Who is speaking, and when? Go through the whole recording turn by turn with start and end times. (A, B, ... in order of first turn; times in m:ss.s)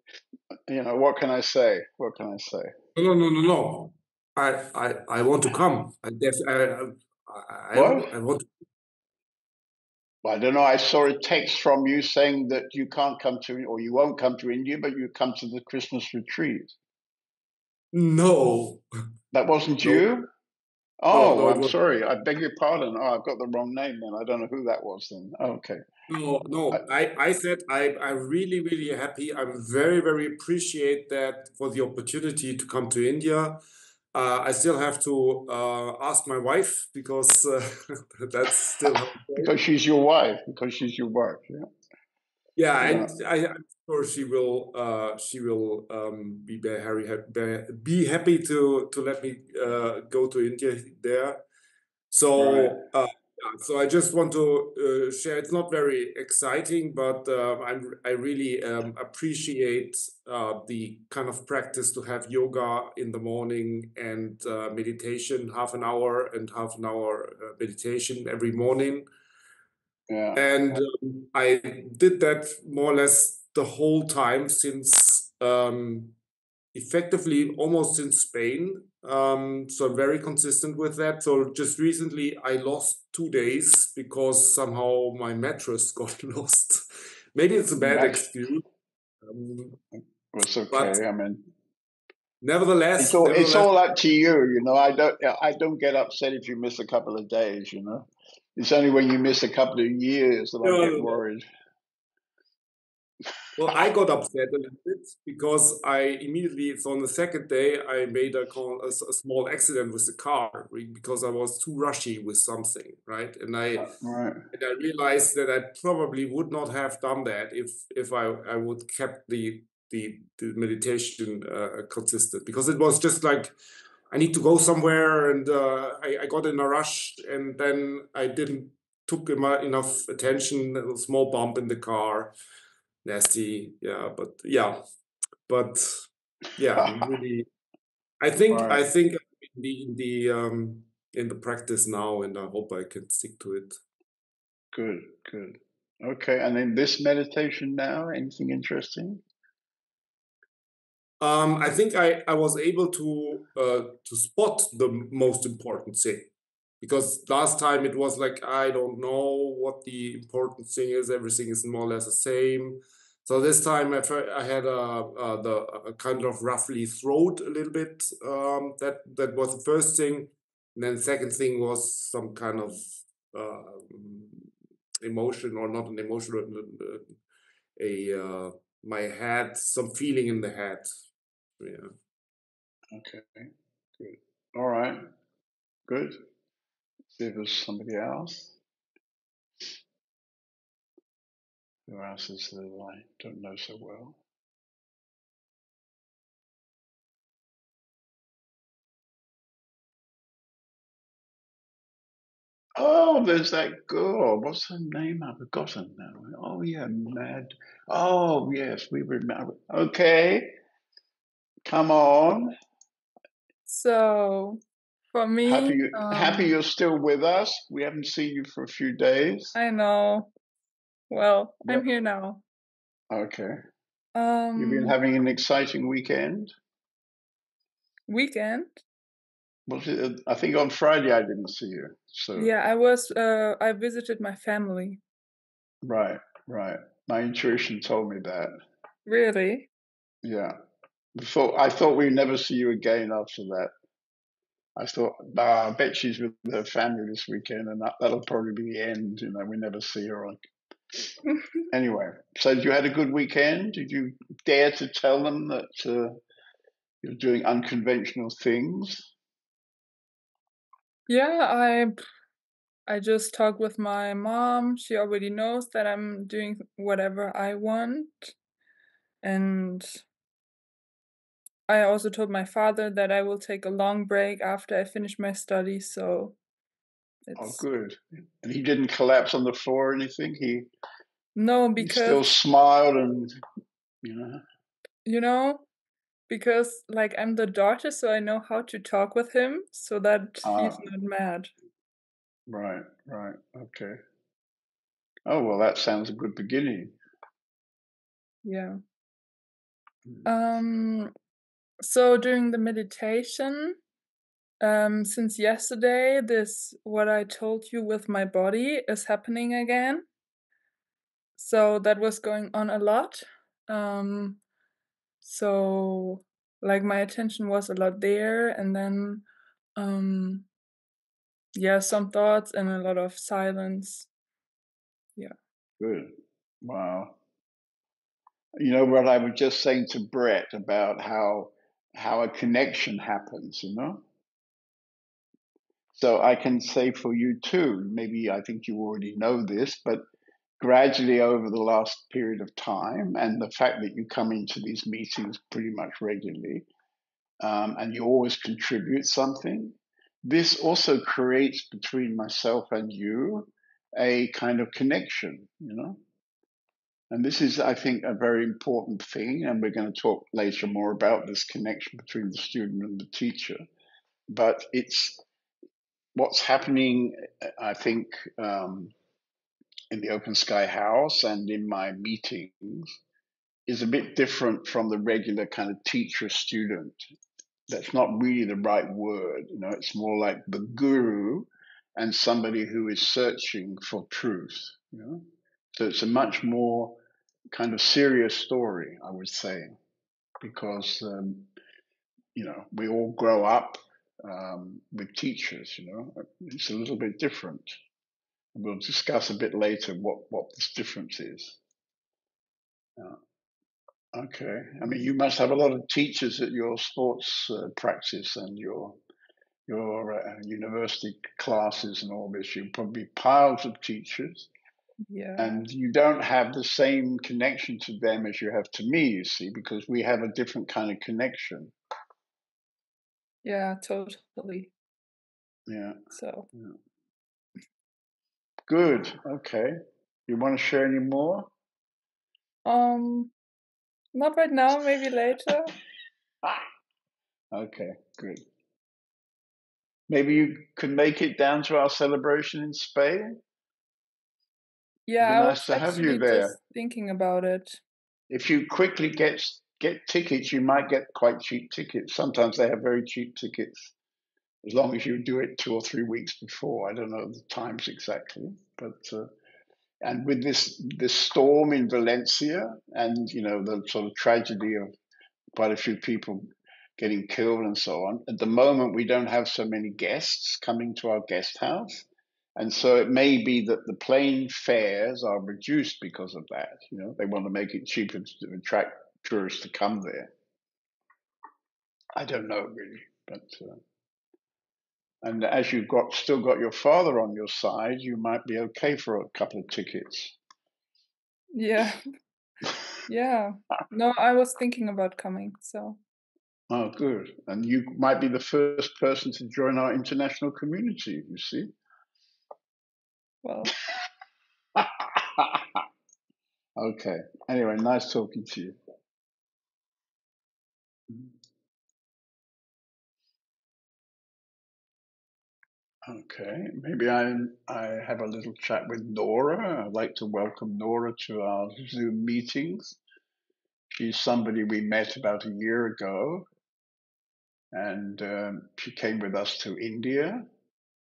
0:00.7-0:02.7 A
0:03.0-0:08.4 B
0:07.7-0:08.1 A
0:10.2-0:16.8 A
0:17.9-0:18.8 B
0:19.3-0:20.3 A
0:21.0-0:25.8 A
0:21.1-0:21.8 B
0:26.1-0:33.6 B
0:34.1-0:39.5 B
0:39.4-0:41.7 A
0:42.6-0:51.4 B
0:42.8-0:43.1 A
0:52.1-1:09.1 B
0:52.4-0:52.8 A
1:10.1-1:10.4 A
1:10.4-1:16.2 B
1:16.7-1:28.6 B
1:27.8-1:28.3 A
1:29.2-1:29.8 B
1:29.9-1:31.5 A
1:30.7-1:31.0 B
1:32.4-1:33.7 B
1:33.0-1:41.5 A
1:40.6-1:41.2 B
1:43.6-1:54.0 B
1:53.8-1:54.4 A
1:54.5-2:03.6 B
2:04.1-2:12.3 B
2:13.0-2:14.8 B
2:15.5-2:17.5 B
2:18.2-2:23.8 B
2:18.5-2:18.8 A
2:24.7-2:29.2 A
2:31.2-2:36.3 B
2:36.8-2:54.5 B
2:55.0-2:57.2 B
2:57.8-3:00.9 B
3:01.6-3:01.9 B
3:02.9-3:05.0 A
3:05.9-3:06.2 A
3:07.2-3:08.6 A
3:11.9-3:14.2 A
3:22.8-3:30.5 A
3:31.7-3:32.5 A
3:33.7-3:34.6 C
3:35.1-3:36.6 C
3:35.4-3:39.6 A
3:39.6-3:40.3 C
3:41.1-3:42.4 C
3:43.1-3:43.6 A
3:44.2-3:45.0 C
3:44.6-3:46.5 A
3:48.1-3:48.8 C
3:49.7-3:52.5 A
3:52.4-3:55.0 C
3:55.8-3:58.5 A
3:59.1-3:59.7 C
4:00.2-4:00.6 A
4:01.2-4:03.7 A
4:04.8-4:10.4 A
4:11.7-4:16.2 A
4:17.0-4:19.1 A
4:21.1-4:22.0 C
4:22.9-4:28.4 C
4:29.2-4:30.0 C
4:31.7-4:36.4 C
4:37.3-4:37.6 C
4:37.4-4:40.7 A
4:41.4-4:42.3 C
4:41.8-4:43.3 A
4:44.0-4:44.4 A
4:45.0-4:45.6 C
4:46.3-4:51.5 C
4:50.4-4:50.9 A
4:52.5-4:54.0 A
4:55.3-4:57.0 A
4:58.4-4:58.8 C
5:00.3-5:01.1 C
5:01.8-5:03.8 C
5:04.6-5:10.1 C
5:11.4-5:14.4 C
5:15.2-5:19.2 C
5:19.8-5:20.5 C
5:21.6-5:24.1 C
5:25.8-5:27.2 A
5:28.6-5:34.0 A
5:35.9-5:40.0 A
5:40.6-5:46.7 A
5:47.4-5:56.0 A
5:57.1-6:03.6 A
6:04.3-6:05.2 A
6:06.2-6:08.9 A
6:09.9-6:13.0 A
6:13.7-6:17.0 A
6:17.7-6:27.0 A
6:27.5-6:29.8 A
6:30.4-6:31.5 A
6:32.4-6:37.8 A
6:38.6-6:41.6 A
6:44.1-6:49.0 A
6:49.7-6:54.5 A
6:55.1-6:55.5 C
6:55.4-7:01.7 A
7:03.4-7:04.7 C
7:05.7-7:06.0 A
7:06.1-7:06.5 C
7:08.7-7:11.5 A
7:12.6-7:13.3 C
7:14.2-7:15.7 C
7:17.5-7:18.4 A
7:20.1-7:23.4 A
7:25.1-7:27.8 C
7:25.2-7:26.6 A
7:28.3-7:33.9 A
7:34.6-7:39.3 A
7:40.0-7:44.9 A
7:45.6-7:52.1 A
7:52.6-8:00.3 A
8:02.2-8:03.8 A
8:05.2-8:10.4 A
8:11.5-8:12.0 C
8:13.1-8:16.0 C
8:16.7-8:21.7 A
8:23.4-8:23.8 C
8:24.8-8:25.8 A
8:26.8-8:28.8 A
8:36.1-8:43.0 A
8:43.9-8:46.5 A
8:47.7-8:50.5 A